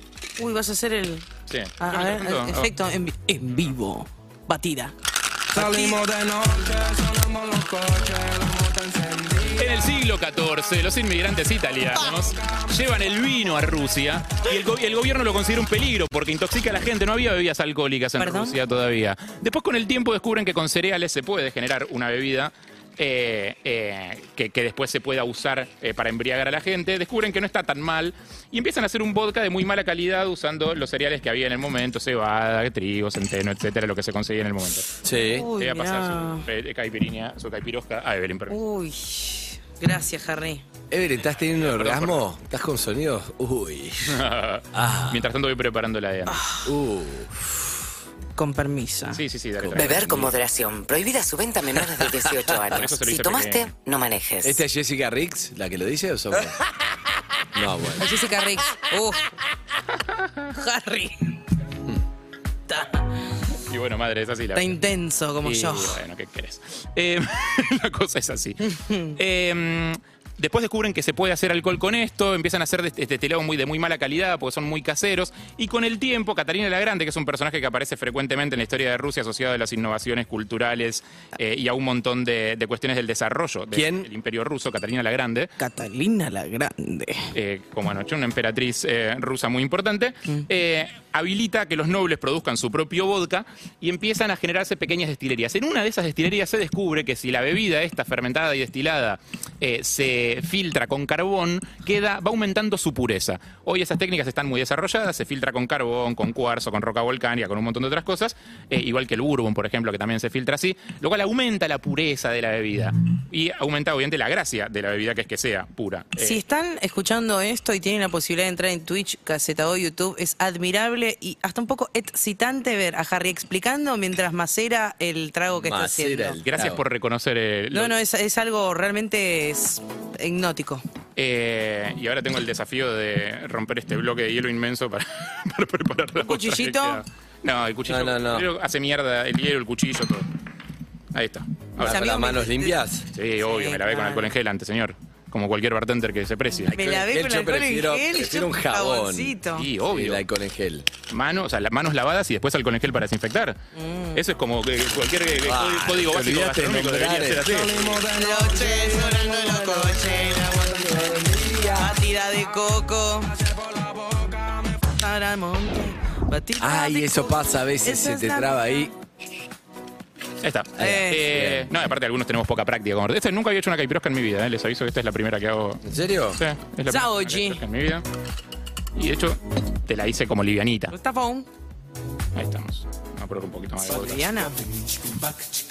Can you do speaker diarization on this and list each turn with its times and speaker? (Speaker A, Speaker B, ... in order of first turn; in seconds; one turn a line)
Speaker A: 0.4-1.3
Speaker B: 1.5-2.7
Speaker A: 1.8-4.9
Speaker A: 5.5-6.2
Speaker C: 6.1-9.4
Speaker B: 9.4-38.6
Speaker A: 18.2-18.6
Speaker D: 35.0-35.5
Speaker A: 35.1-36.5
Speaker A: 38.5-40.6
Speaker D: 40.9-44.2
Speaker B: 41.3-42.3
Speaker B: 44.1-46.5
Speaker D: 44.7-45.3
Speaker A: 46.3-46.7
Speaker D: 46.6-47.7
Speaker A: 48.4-49.2
Speaker B: 49.1-50.3
Speaker D: 49.6-50.3
Speaker E: 49.8-54.6
Speaker D: 51.8-52.2
Speaker B: 52.7-53.7
Speaker D: 54.4-56.6
Speaker D: 57.5-58.1
Speaker A: 58.0-59.3
Speaker B: 60.1-60.5
Speaker A: 60.5-61.4
Speaker A: 62.7-63.1
Speaker B: 63.6-64.8
Speaker A: 64.5-66.0
Speaker B: 65.4-85.5
Speaker A: 68.8-69.1
Speaker D: 83.7-84.1
Speaker A: 85.6-87.3
Speaker B: 87.3-116.4
Speaker A: 116.2-126.4
Speaker D: 125.5-126.8
Speaker B: 126.5-128.0
Speaker A: 127.7-130.8
Speaker B: 131.2-140.3
Speaker A: 136.2-137.0
Speaker D: 137.9-138.5
Speaker B: 141.1-142.2
Speaker A: 141.8-142.8
Speaker D: 141.8-143.1
Speaker B: 143.1-146.7
Speaker A: 143.4-144.3
Speaker D: 146.7-149.4
Speaker A: 146.7-149.7
Speaker B: 149.5-150.3
Speaker D: 149.9-150.9
Speaker B: 151.1-153.6
Speaker A: 153.8-154.2
Speaker B: 154.1-157.8
Speaker D: 155.4-161.8
Speaker A: 158.0-164.1
Speaker A: 164.8-168.9
Speaker D: 166.6-168.9
Speaker B: 170.4-178.1
Speaker D: 170.8-171.7
Speaker A: 170.8-171.3
Speaker D: 175.8-176.4
Speaker A: 176.9-177.6
Speaker B: 178.9-180.9
Speaker A: 180.9-181.5
Speaker B: 182.3-184.3
Speaker A: 183.9-184.8